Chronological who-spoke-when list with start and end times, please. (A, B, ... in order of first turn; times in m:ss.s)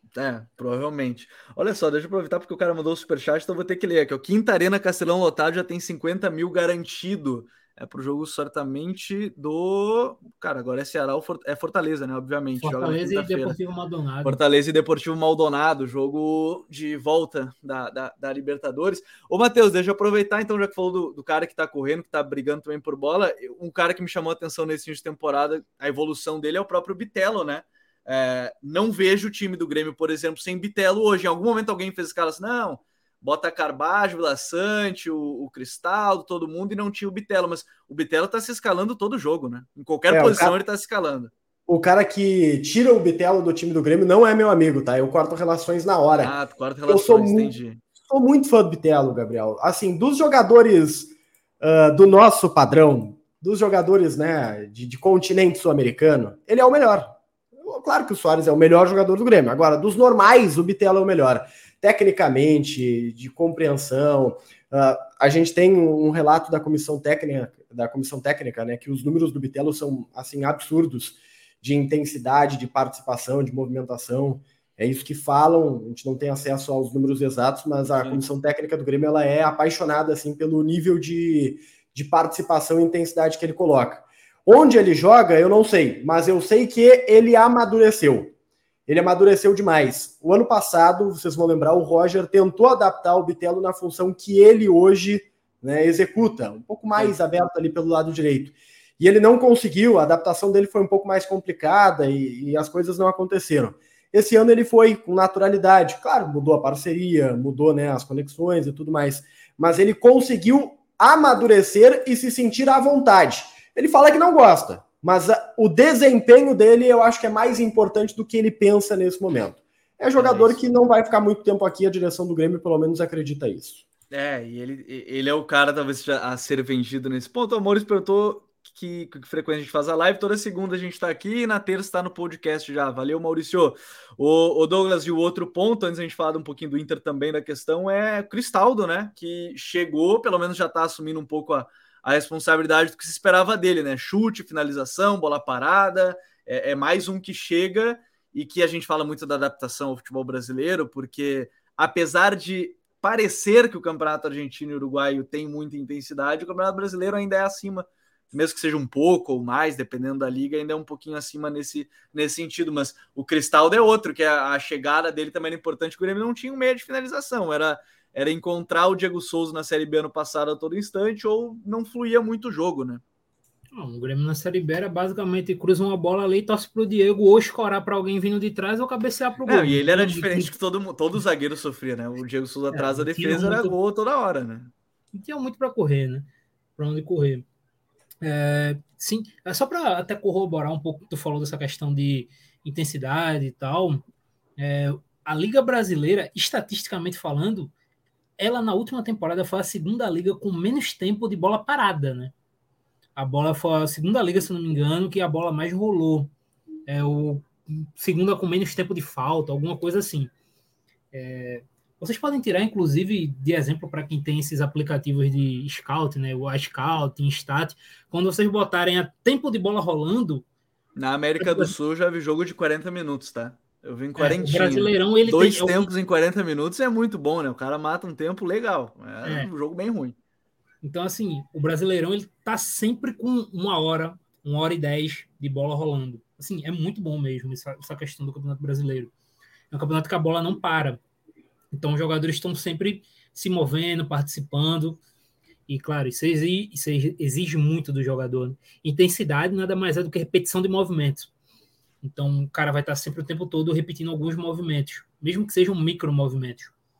0:00.1-0:13.6 A
0:12.6-0:14.4 B
0:14.2-0:41.3 A
0:40.1-0:40.6 C
0:41.7-0:46.3 C
0:46.2-0:47.8 A
0:46.9-0:47.5 C
0:48.0-1:28.3 C
1:17.9-1:18.2 A
1:28.9-2:03.8 C
2:00.2-2:00.6 A
2:04.1-2:53.0 A
2:53.7-3:00.5 B
2:59.4-3:04.7 A
3:02.7-3:03.7 B
3:05.1-3:07.4 B
3:08.2-3:14.0 B
3:14.6-3:17.7 B
3:18.4-3:22.3 B
3:23.2-3:26.3 B
3:26.9-3:30.3 B
3:31.1-3:40.4 B
3:41.0-3:50.2 A
3:41.4-3:41.7 B
3:44.2-3:45.9 B
3:49.2-3:49.5 B
3:50.8-3:59.1 B
3:59.7-4:01.0 B
4:01.7-4:05.0 B
4:05.7-4:11.3 B
4:12.0-4:16.7 B